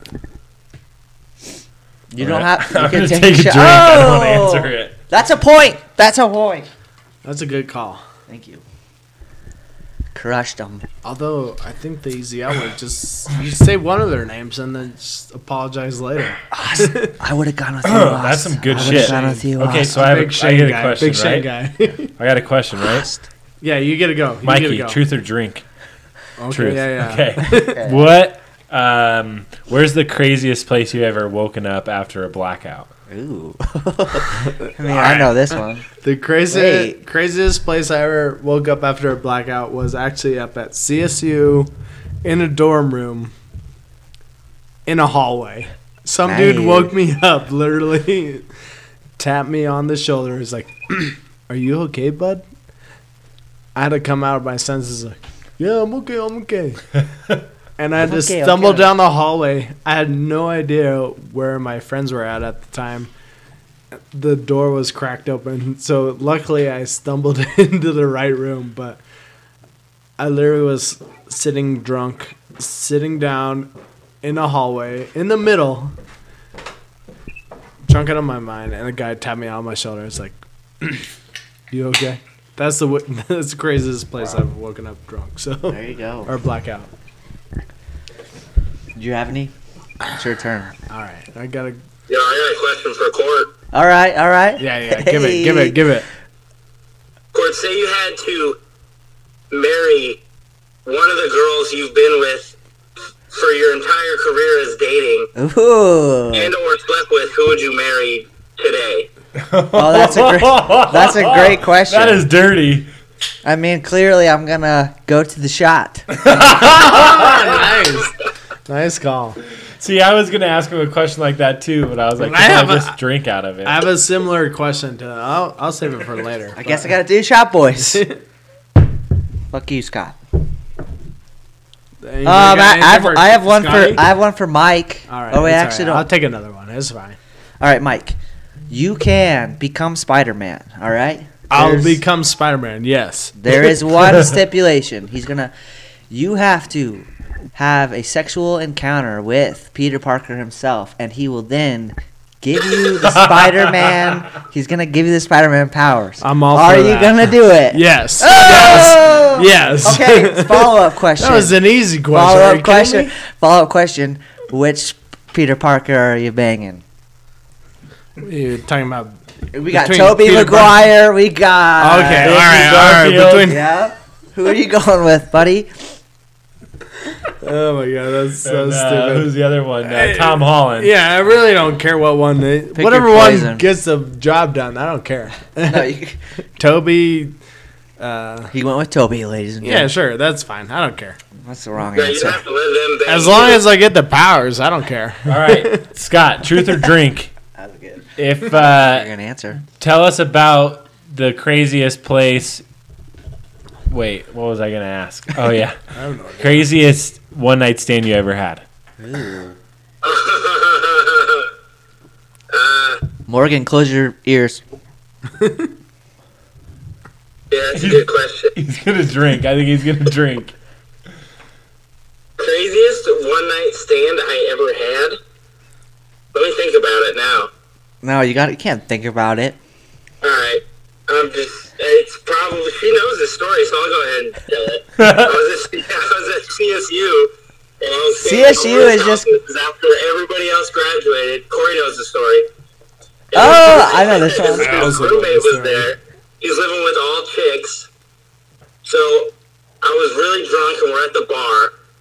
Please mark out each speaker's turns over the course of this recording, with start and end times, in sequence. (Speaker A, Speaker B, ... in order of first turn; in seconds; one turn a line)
Speaker A: 2.1-6.7
Speaker B: 2.2-5.0
Speaker C: 7.2-8.0
Speaker A: 8.3-8.6
Speaker A: 10.1-10.8
Speaker C: 11.0-17.1
Speaker A: 16.5-20.2
Speaker B: 17.8-21.5
Speaker C: 18.7-22.1
Speaker B: 22.2-23.1
Speaker C: 23.6-25.0
Speaker B: 24.4-25.6
Speaker C: 26.4-27.9
Speaker B: 26.5-32.9
Speaker A: 27.8-28.0
Speaker A: 33.1-35.9
Speaker C: 34.3-41.7
Speaker A: 36.5-37.0
Speaker C: 42.2-43.3
Speaker C: 44.9-48.5
Speaker A: 46.2-46.9
Speaker C: 49.2-52.4
Speaker C: 53.7-57.0
Speaker C: 57.8-63.1
Speaker A: 58.0-58.9
Speaker C: 63.9-69.0
Speaker C: 70.2-73.7
Speaker C: 74.2-75.9
Speaker C: 77.8-81.0
Speaker C: 81.7-86.9
Speaker A: 85.7-86.3
Speaker A: 88.9-89.5
Speaker A: 90.1-90.7
Speaker C: 90.9-91.8
Speaker D: 92.1-93.5
Speaker A: 93.7-95.8
Speaker C: 94.6-96.1
Speaker D: 97.3-98.6
Speaker D: 99.5-100.2
Speaker D: 100.8-102.5
Speaker D: 103.3-105.3
Speaker A: 105.3-106.5
Speaker D: 106.3-109.1
Speaker B: 109.4-112.9
Speaker A: 109.7-112.3
Speaker A: 113.4-116.1
Speaker B: 116.1-117.5
Speaker C: 116.6-118.1
Speaker C: 118.7-119.4
Speaker B: 119.8-123.8
Speaker C: 122.2-123.0
Speaker C: 123.6-127.0
Speaker A: 126.5-128.0
Speaker C: 127.8-128.2
Speaker A: 129.5-130.2
Speaker C: 132.0-134.1
Speaker A: 132.2-136.1
Speaker C: 135.1-137.2
Speaker A: 137.6-138.2
Speaker A: 138.7-142.0
Speaker C: 141.5-143.7
Speaker A: 143.4-145.5
Speaker A: 146.1-166.8
Speaker B: 153.1-153.4
Speaker C: 156.2-163.1
Speaker C: 168.2-169.2
Speaker A: 169.5-172.5
Speaker C: 169.7-170.8
Speaker C: 171.8-173.6
Speaker B: 172.2-173.5
Speaker A: 173.4-175.7
Speaker C: 177.4-179.3
Speaker B: 178.4-180.9
Speaker C: 179.8-185.9
Speaker A: 182.7-183.7
Speaker A: 185.6-186.2
Speaker C: 186.6-187.3
Speaker C: 188.0-188.5
Speaker A: 188.5-189.9
Speaker C: 189.6-191.2
Speaker A: 191.4-192.4
Speaker D: 191.9-193.6
Speaker C: 193.1-195.8
Speaker B: 195.3-197.3
Speaker A: 197.6-199.6
Speaker B: 198.2-199.1
Speaker B: 199.8-202.6
Speaker B: 203.9-205.8
Speaker C: 205.9-206.7
Speaker B: 206.4-208.6
Speaker A: 209.0-209.6
Speaker D: 210.0-211.5
Speaker D: 212.5-213.0
Speaker A: 213.3-214.6
Speaker C: 215.4-215.7
Speaker D: 217.5-218.5
Speaker B: 217.7-220.5
Speaker D: 222.4-225.2
Speaker D: 226.3-227.5
Speaker A: 228.0-229.6
Speaker D: 230.2-242.5
Speaker B: 235.0-235.3
Speaker A: 238.2-239.3
Speaker D: 243.3-247.9
Speaker A: 243.3-244.9
Speaker C: 244.5-245.9
Speaker D: 248.8-251.7